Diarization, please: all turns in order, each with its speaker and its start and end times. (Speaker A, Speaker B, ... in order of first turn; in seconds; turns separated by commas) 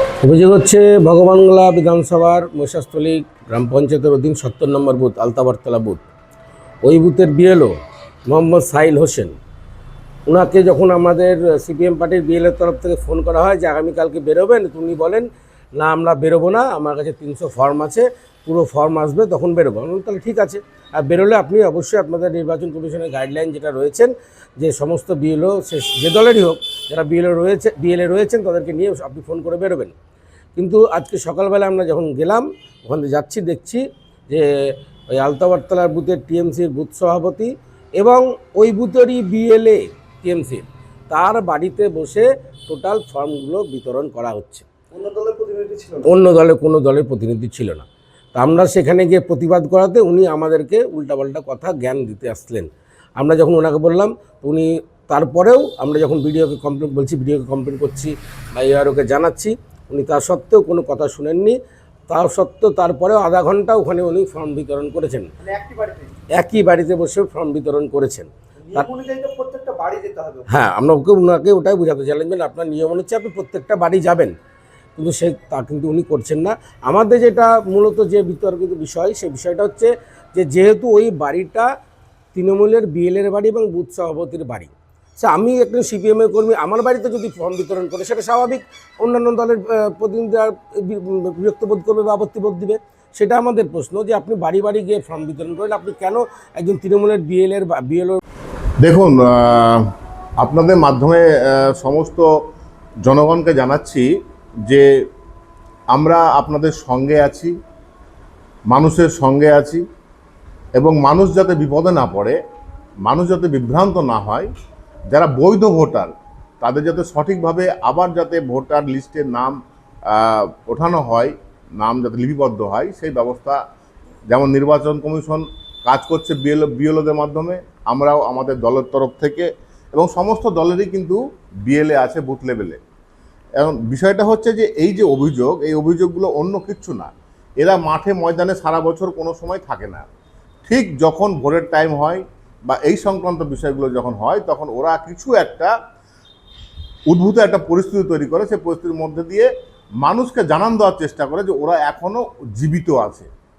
Speaker A: 0.2-6.1, Speaker A: 6.8-7.7, Speaker A: 8.3-9.4, Speaker A: 10.3-29.9, Speaker A: 30.6-34.5, Speaker A: 35.1-44.7, Speaker B: 44.9-46.1, Speaker A: 46.0-61.6, Speaker A: 62.1-65.3, Speaker B: 65.4-66.1, Speaker A: 66.4-68.9, Speaker B: 68.7-70.5, Speaker A: 70.5-74.4, Speaker A: 75.0-81.7, Speaker A: 82.3-98.2, Speaker C: 98.8-99.8, Speaker C: 100.4-102.3, Speaker C: 103.0-104.1, Speaker C: 105.9-107.5, Speaker C: 108.7-109.8, Speaker C: 110.8-112.4, Speaker C: 113.1-114.5, Speaker C: 115.1-119.6, Speaker C: 120.1-123.6, Speaker C: 124.3-132.8, Speaker C: 133.6-140.1, Speaker C: 140.7-145.7, Speaker C: 147.1-149.5, Speaker C: 150.0-153.3